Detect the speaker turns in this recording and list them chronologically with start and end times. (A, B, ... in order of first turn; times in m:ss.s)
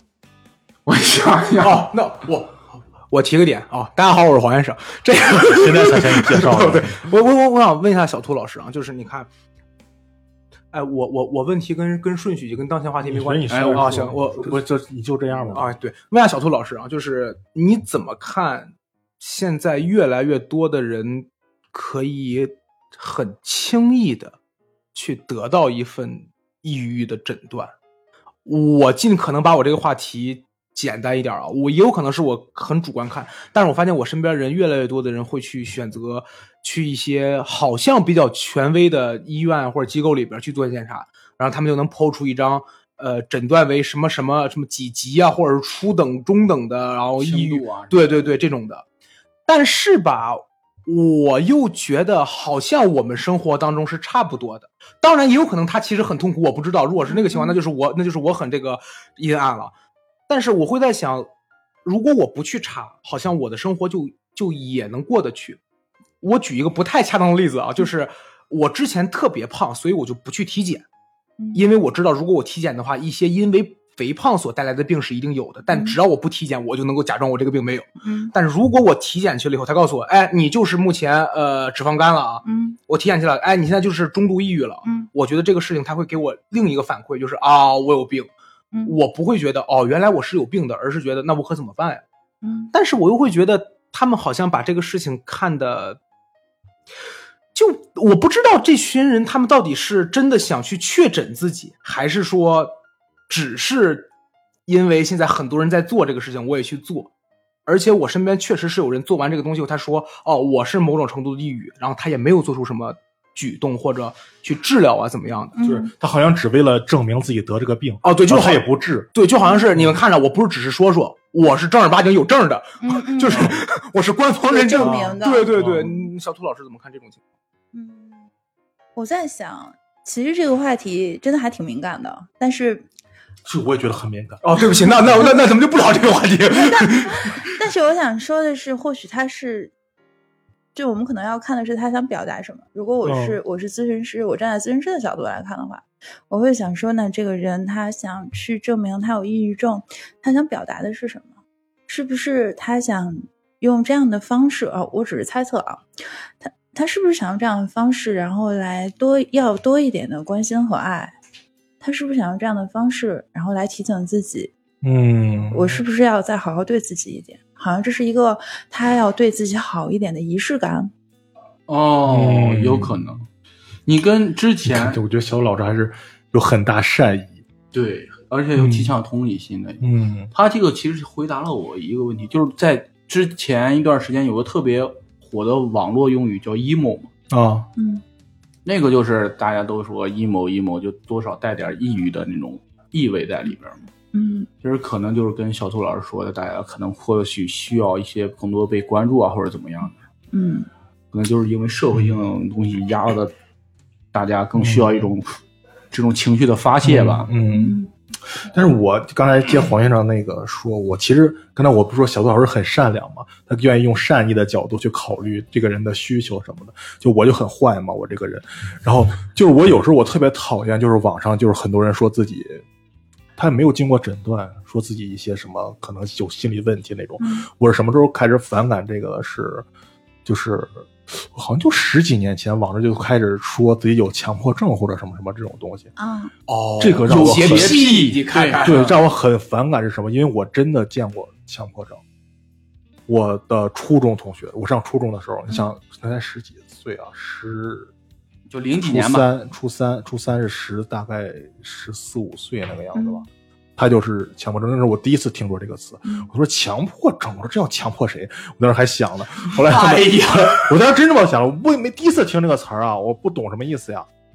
0:00.8-0:01.9 A
0:01.6-0:09.3 B
0:05.4-0:07.0 C
0:10.7-0:14.5 B
0:13.0-0:15.7 C
0:13.5-0:14.3 A
0:15.5-0:24.4 B
0:24.9-0:27.7 B
0:28.4-0:48.8 B
0:47.2-0:48.4 A
0:49.5-0:59.7 B
0:57.1-0:57.6 D
1:00.3-1:01.3 B
1:01.8-1:05.6 B
1:06.2-1:10.8 B
1:11.4-1:11.6 D
1:11.5-1:28.3 B
1:15.7-1:16.0 D
1:18.0-1:18.3 D
1:22.4-1:22.8 D
1:24.8-1:25.1 D
1:28.8-1:32.0 B
1:32.4-1:32.7 D
1:32.7-1:36.0 B
1:37.5-1:42.8 B
1:43.3-1:44.1 B
1:44.6-1:47.1 B
1:47.6-1:55.6 B
1:55.5-1:55.9 D
1:55.6-1:59.1 C
1:58.0-1:58.6 B
1:59.1-2:07.2 B
1:59.4-1:59.7 D
2:02.8-2:03.6 D
2:04.5-2:06.1 D
2:04.8-2:05.9 C
2:07.7-2:08.3 D
2:09.0-2:12.9 D
2:13.4-2:15.2 C
2:14.4-2:17.4 B
2:16.5-2:19.7 D
2:20.7-2:31.3 D
2:23.0-2:23.4 C
2:31.9-2:35.8 D
2:36.4-2:41.2 D
2:41.8-2:44.5 D
2:44.8-2:45.8 C
2:45.5-2:50.9 D
2:51.7-2:53.3 A
2:52.0-2:53.0 C
2:53.8-2:55.0 A
2:54.6-2:57.4 C
2:57.7-3:07.1 A
2:58.5-2:59.0 C
2:59.8-3:00.3 C
3:07.3-3:07.7 C
3:07.8-3:08.0 D
3:08.6-3:13.8 A
3:14.1-3:14.5 D
3:14.6-3:19.9 A
3:20.3-3:20.7 D
3:21.1-3:23.3 A
3:21.9-3:22.2 C
3:24.1-3:25.3 A
3:24.6-3:25.1 C
3:25.9-3:27.3 A
3:26.8-3:42.6 C
3:27.5-3:27.9 D
3:43.4-3:49.6 C
3:47.2-3:47.5 D
3:50.2-3:55.9 C
3:56.0-3:56.3 D
3:56.5-3:58.9 B
3:56.8-3:57.8 C
3:57.1-3:59.0 A
3:58.6-4:02.0 C
4:03.1-4:07.9 C
4:08.5-4:09.3 A
4:08.8-4:13.2 C
4:12.9-4:13.2 D
4:13.8-4:24.1 C
4:19.5-4:20.7 A